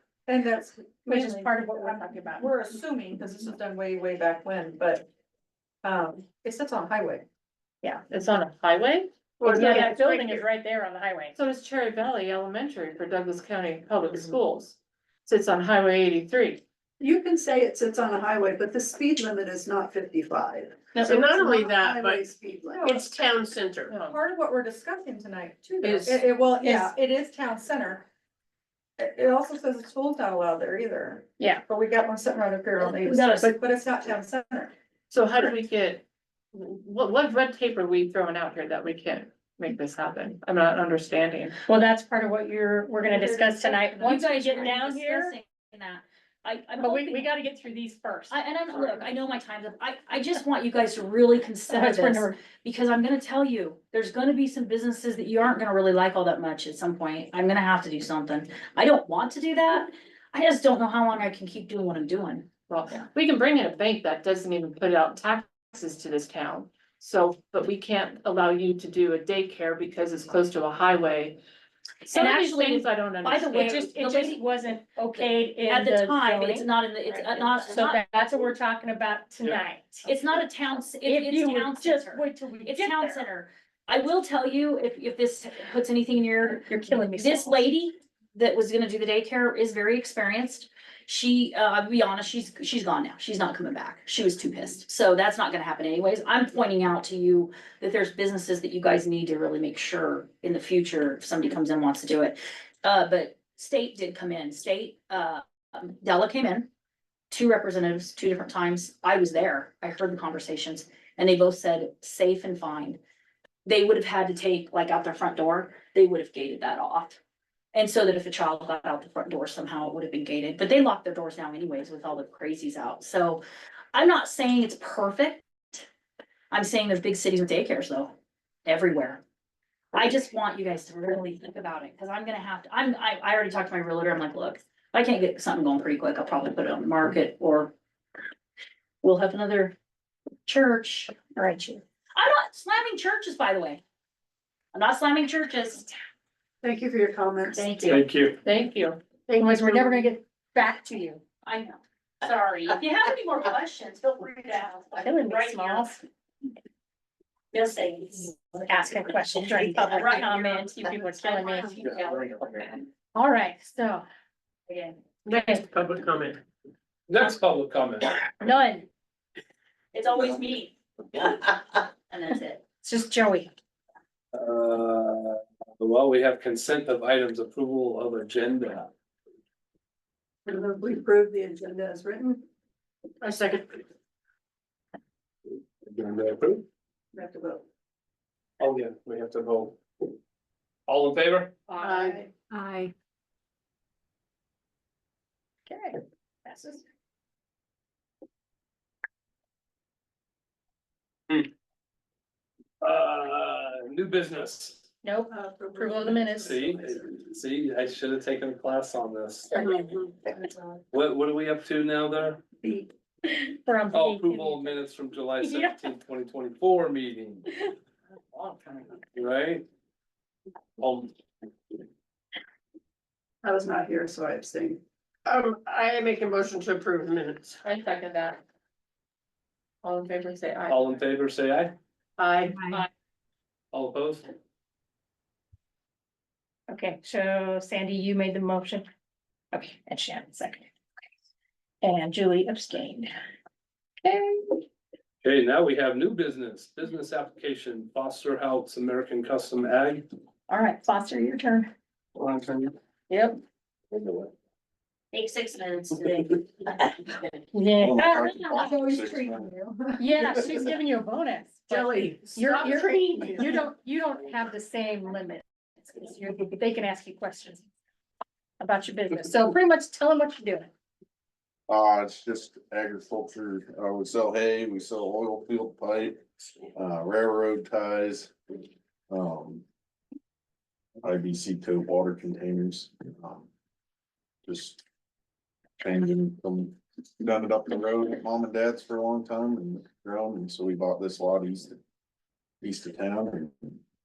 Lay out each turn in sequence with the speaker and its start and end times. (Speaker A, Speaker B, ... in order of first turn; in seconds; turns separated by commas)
Speaker A: 0.3-5.0, Speaker B: 1.1-2.5, Speaker A: 5.8-7.3, Speaker C: 8.0-9.9, Speaker D: 9.4-10.5, Speaker A: 9.4-10.0, Speaker B: 9.4-11.3, Speaker C: 11.3-16.6, Speaker A: 17.0-23.1, Speaker D: 20.9-22.3, Speaker D: 22.9-23.9, Speaker C: 23.9-24.2, Speaker A: 23.9-28.1, Speaker D: 25.8-26.2, Speaker B: 26.6-26.9, Speaker A: 29.0-34.7, Speaker B: 31.4-31.6, Speaker E: 32.8-33.5, Speaker C: 35.1-41.6, Speaker B: 41.7-45.4, Speaker A: 43.0-44.3, Speaker E: 44.0-47.3, Speaker B: 46.8-48.4, Speaker E: 48.3-62.5, Speaker B: 51.7-52.4, Speaker C: 62.7-71.4, Speaker E: 72.1-74.4, Speaker C: 72.1-73.8, Speaker B: 73.5-76.7, Speaker E: 75.1-78.3, Speaker B: 77.3-80.3, Speaker E: 80.0-106.7, Speaker B: 81.0-83.2, Speaker B: 86.7-87.7, Speaker E: 107.3-113.0, Speaker E: 113.7-117.2, Speaker E: 117.7-123.4, Speaker E: 123.9-125.9, Speaker E: 126.5-128.1, Speaker E: 128.7-129.2, Speaker E: 129.9-137.7, Speaker E: 139.0-139.8, Speaker E: 140.5-141.3, Speaker B: 141.3-141.8, Speaker E: 142.2-143.8, Speaker E: 144.7-145.9, Speaker A: 146.6-147.8, Speaker E: 147.6-148.1, Speaker F: 147.8-148.4, Speaker C: 148.4-149.0, Speaker B: 149.3-151.2, Speaker E: 151.4-156.0, Speaker B: 155.0-156.0, Speaker E: 157.5-158.6, Speaker B: 158.6-161.8, Speaker E: 159.4-162.9, Speaker B: 163.1-164.1, Speaker E: 164.7-165.0, Speaker D: 165.2-166.4, Speaker B: 165.3-165.7, Speaker F: 167.1-168.2, Speaker B: 168.4-168.9, Speaker E: 169.9-172.7, Speaker B: 172.8-173.5, Speaker F: 174.3-178.9, Speaker A: 180.5-182.4, Speaker D: 183.2-183.8, Speaker F: 185.9-186.7, Speaker A: 187.1-187.6, Speaker F: 188.6-189.8, Speaker F: 190.9-191.6, Speaker B: 191.8-192.9, Speaker D: 191.8-192.2, Speaker A: 191.8-192.3, Speaker B: 195.7-196.8, Speaker F: 202.8-204.9, Speaker B: 205.0-206.6, Speaker A: 205.3-207.1, Speaker F: 206.4-209.5, Speaker A: 210.3-210.7, Speaker F: 210.9-212.4, Speaker A: 212.6-212.9, Speaker B: 213.3-214.9, Speaker F: 213.9-217.5, Speaker B: 215.4-215.9, Speaker F: 218.3-219.7, Speaker F: 220.8-221.1, Speaker A: 223.4-224.8, Speaker D: 225.2-227.6, Speaker C: 227.6-228.4, Speaker C: 229.8-231.0, Speaker F: 230.7-231.8, Speaker D: 232.2-232.6, Speaker C: 232.2-232.9, Speaker B: 232.6-232.8, Speaker F: 233.7-234.3, Speaker B: 236.7-238.9, Speaker B: 239.5-240.7, Speaker B: 241.8-243.2, Speaker B: 244.0-244.6, Speaker F: 245.2-250.0, Speaker B: 250.5-251.7, Speaker B: 253.1-253.4, Speaker E: 255.1-257.3, Speaker B: 257.5-258.7, Speaker G: 257.8-259.5, Speaker A: 258.6-260.0, Speaker B: 260.0-267.6, Speaker D: 261.7-263.6, Speaker B: 268.6-270.7, Speaker G: 271.7-279.6, Speaker G: 281.0-283.5, Speaker G: 284.5-284.8, Speaker G: 285.8-291.8, Speaker G: 292.6-293.7